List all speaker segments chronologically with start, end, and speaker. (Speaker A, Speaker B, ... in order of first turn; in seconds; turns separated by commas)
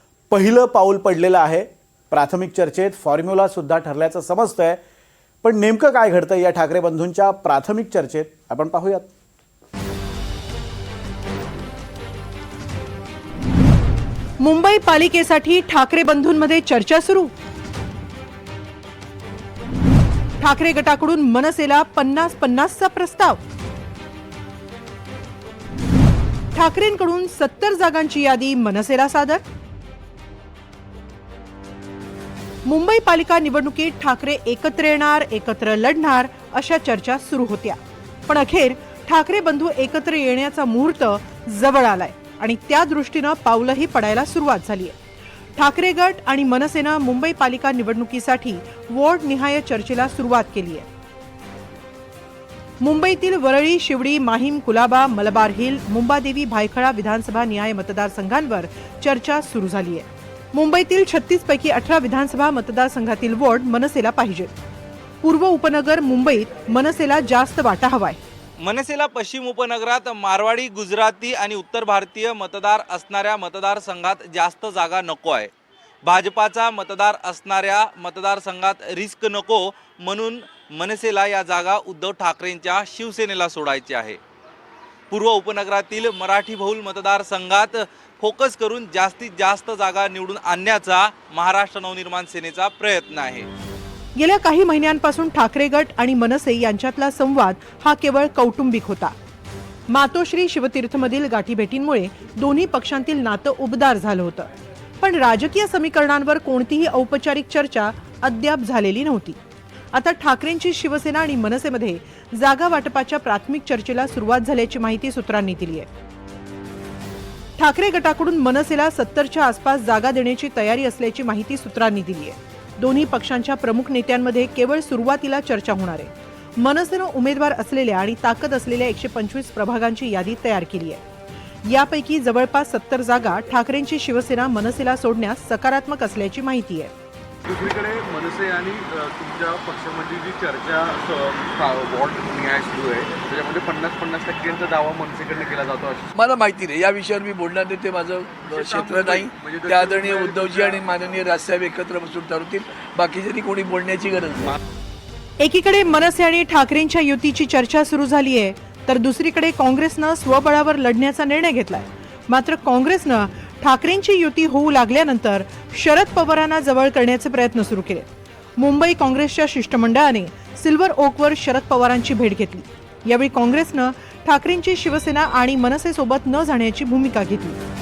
Speaker A: 0.3-4.8, Speaker A: 5.4-9.1, Speaker B: 14.4-17.3, Speaker B: 20.4-23.4, Speaker B: 26.5-29.4, Speaker B: 32.6-45.0, Speaker B: 45.6-50.9, Speaker B: 52.8-64.5, Speaker B: 65.2-68.2, Speaker C: 68.6-75.5, Speaker C: 76.0-84.2, Speaker C: 85.1-93.5, Speaker B: 94.2-99.1, Speaker B: 99.9-104.5, Speaker B: 105.0-109.4, Speaker B: 109.9-115.9, Speaker B: 117.6-131.0, Speaker B: 131.7-136.9, Speaker D: 137.5-146.1, Speaker E: 146.2-154.6, Speaker D: 148.4-150.8, Speaker B: 155.4-177.6